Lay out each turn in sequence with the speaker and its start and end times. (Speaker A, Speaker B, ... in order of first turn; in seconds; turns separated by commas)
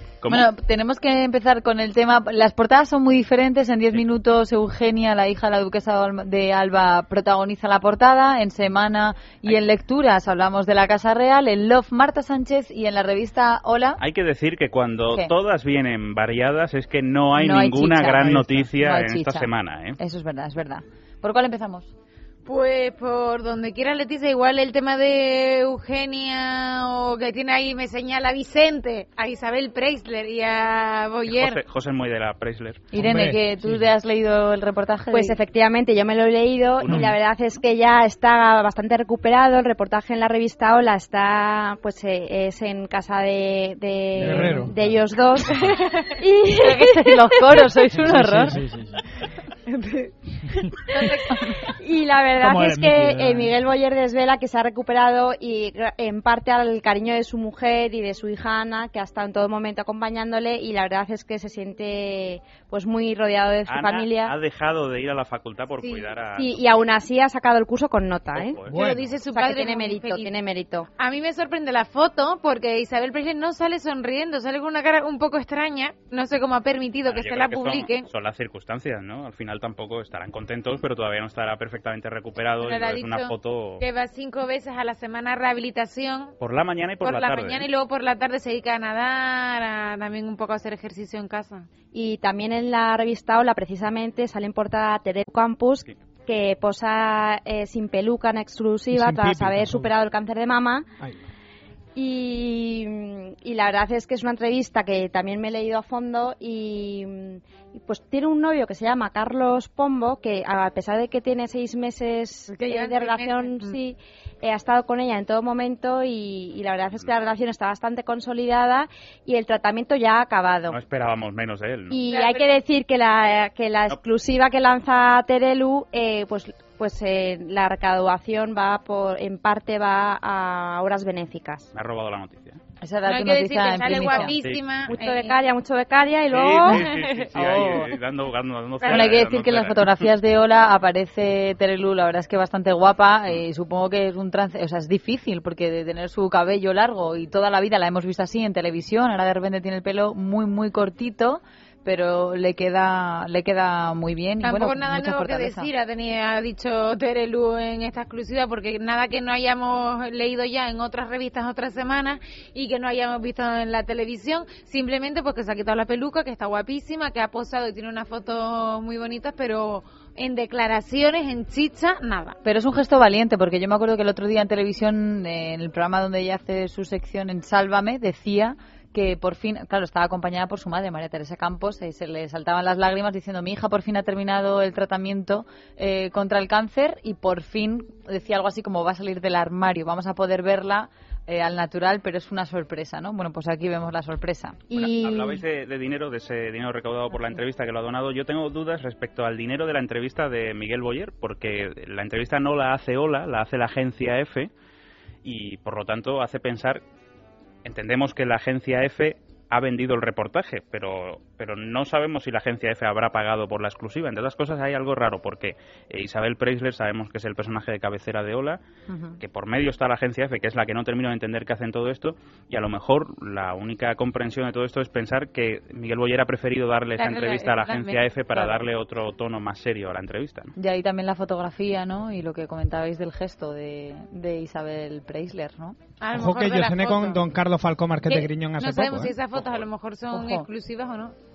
Speaker A: 0.2-0.5, Speaker B: 0.3-14.0, Speaker A: 14.0-20.0, Speaker B: 17.4-21.9, Speaker C: 22.5-31.6, Speaker A: 31.3-32.8, Speaker B: 32.9-35.4, Speaker D: 33.0-33.4, Speaker E: 35.1-47.7, Speaker A: 36.8-37.2, Speaker F: 44.2-45.7, Speaker D: 44.2-44.7, Speaker B: 46.6-48.6, Speaker F: 48.0-49.2, Speaker E: 49.7-64.3, Speaker C: 50.9-51.4, Speaker F: 52.4-53.5, Speaker A: 63.7-66.6, Speaker C: 65.8-66.1, Speaker E: 66.4-68.6, Speaker A: 68.3-68.9, Speaker D: 68.7-69.1, Speaker C: 68.7-70.3, Speaker E: 69.3-70.9, Speaker C: 71.0-78.1, Speaker A: 77.1-83.8, Speaker C: 82.6-86.3, Speaker A: 86.4-87.7, Speaker C: 87.0-91.7, Speaker E: 91.9-100.9, Speaker D: 98.9-99.9, Speaker E: 102.0-120.8, Speaker C: 112.5-113.8, Speaker A: 120.7-122.0, Speaker E: 121.9-131.7, Speaker C: 122.1-122.6, Speaker A: 131.7-132.6, Speaker B: 132.8-134.3, Speaker C: 133.1-135.4, Speaker A: 134.2-134.7, Speaker E: 134.9-136.9, Speaker A: 136.3-139.9, Speaker B: 137.3-137.9, Speaker C: 138.8-139.1, Speaker B: 138.9-155.7, Speaker C: 154.4-172.4, Speaker B: 172.4-194.7, Speaker E: 194.7-195.4, Speaker A: 194.8-204.5, Speaker A: 205.2-206.8, Speaker A: 207.6-218.6, Speaker B: 218.9-219.2, Speaker A: 219.2-230.5, Speaker C: 227.0-228.5, Speaker B: 230.6-235.8, Speaker C: 236.0-237.2, Speaker D: 236.1-239.2, Speaker C: 238.1-241.1, Speaker A: 239.3-239.7, Speaker B: 240.1-240.4